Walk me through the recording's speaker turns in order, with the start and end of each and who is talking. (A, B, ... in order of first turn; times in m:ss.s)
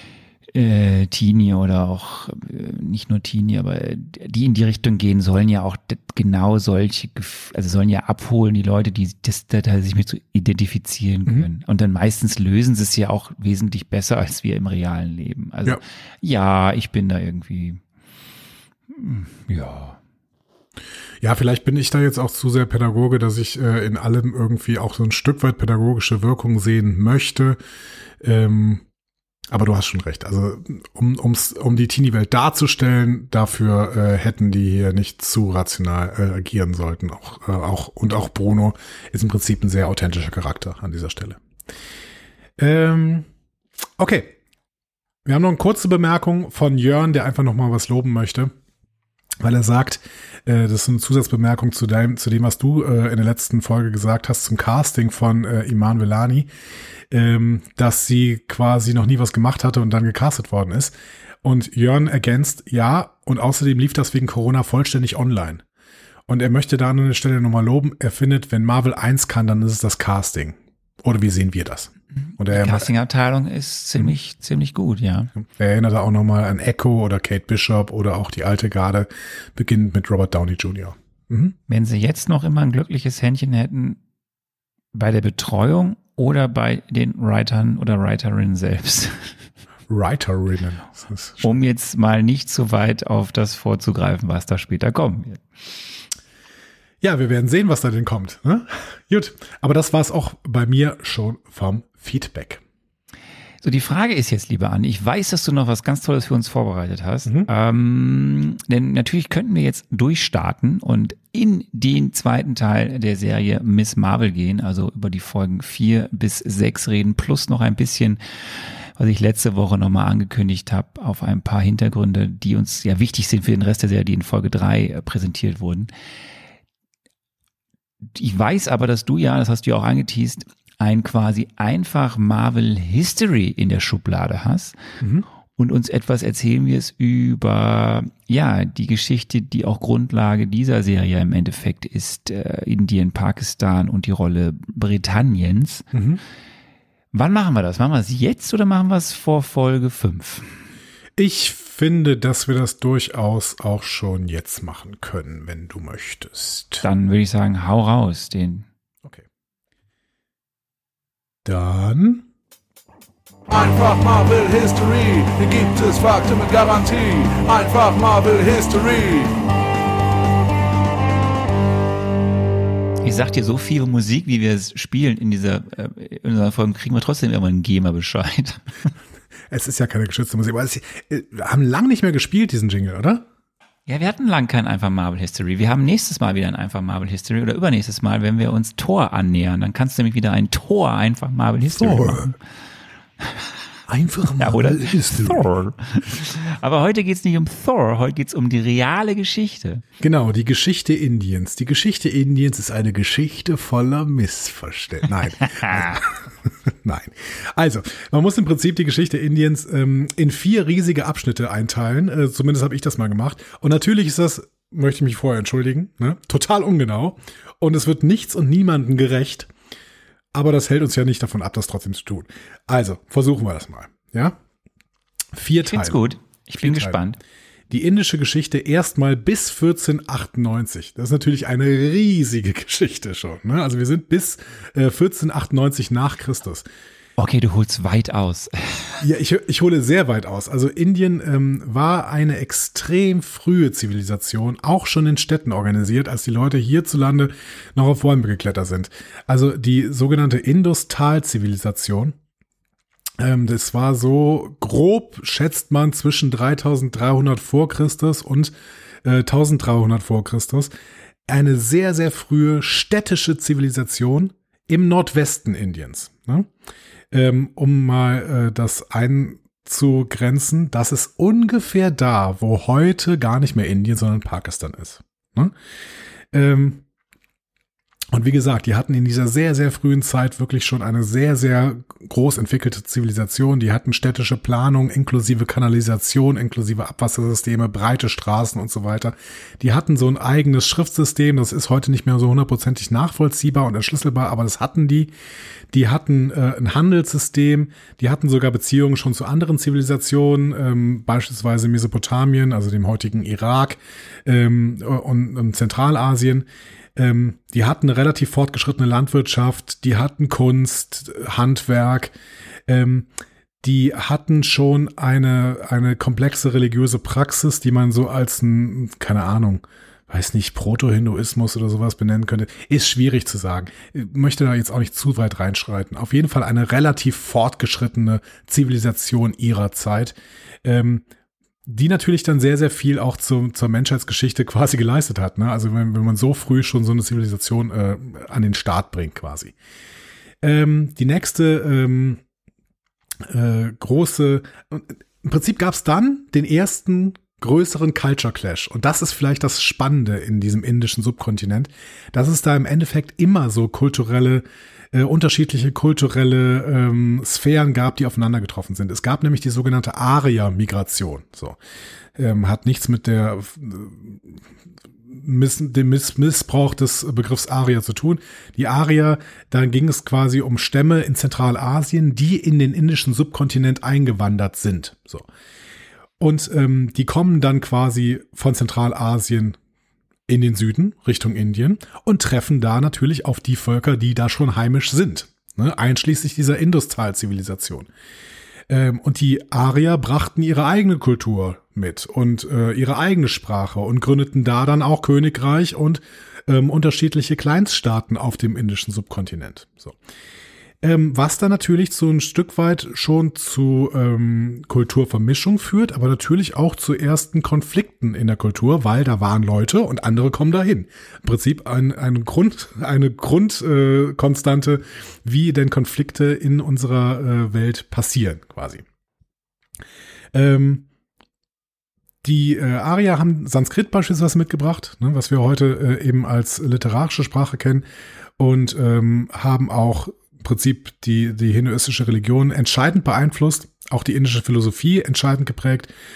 0:00.5-0:17.8 A
0:18.9-0:20.0 A
0:21.2-0:27.6 B
0:28.2-0:28.8 B
0:29.5-0:41.4 B
0:42.6-0:43.3 B
0:44.0-0:44.4 B
0:45.2-0:48.5 B
0:49.4-0:56.5 B
0:57.1-1:05.6 B
1:06.3-1:12.9 B
1:12.5-1:15.3 A
1:15.4-1:21.5 B
1:21.7-1:24.0 A
1:24.9-1:29.3 A
1:29.9-1:31.6 B
1:31.4-1:35.4 A
1:37.0-1:42.6 B
1:43.6-2:05.9 A
2:08.1-2:14.8 A
2:15.0-2:15.2 B
2:15.6-2:25.8 A
2:25.9-2:26.2 B
2:27.1-2:30.6 A
2:31.2-2:36.8 B
2:36.8-2:38.6 A
2:41.4-2:42.2 B
2:43.5-2:49.4 C
2:53.0-2:58.9 A
2:59.5-3:03.2 B
3:03.9-3:12.3 A
3:11.6-3:12.3 B
3:13.2-3:13.5 A
3:13.9-3:15.5 B
3:14.3-3:19.8 A
3:20.0-3:39.5 B
3:25.5-3:25.8 A
3:40.3-3:44.4 B
3:45.3-3:46.0 B
3:45.6-3:47.2 A
3:46.6-3:47.0 B
3:47.7-3:56.6 B
3:57.2-3:59.0 A
3:59.0-4:12.2 B
4:13.2-4:18.5 B
4:19.0-4:20.7 B
4:21.3-4:26.5 B
4:27.1-4:35.5 B
4:36.3-4:36.8 B
4:38.1-4:55.1 B
4:55.7-5:12.1 B
5:12.7-5:13.1 B
5:13.6-5:31.0 B
5:31.6-5:39.5 B
5:40.4-5:42.2 B
5:43.2-6:01.6 B
6:02.1-6:04.4 B
6:05.1-6:15.3 B
6:16.2-6:19.6 B
6:20.3-6:27.9 B
6:28.7-6:40.0 B
6:40.8-6:58.8 B
7:00.3-7:00.8 B
7:02.2-7:07.8 B
7:08.4-7:15.9 B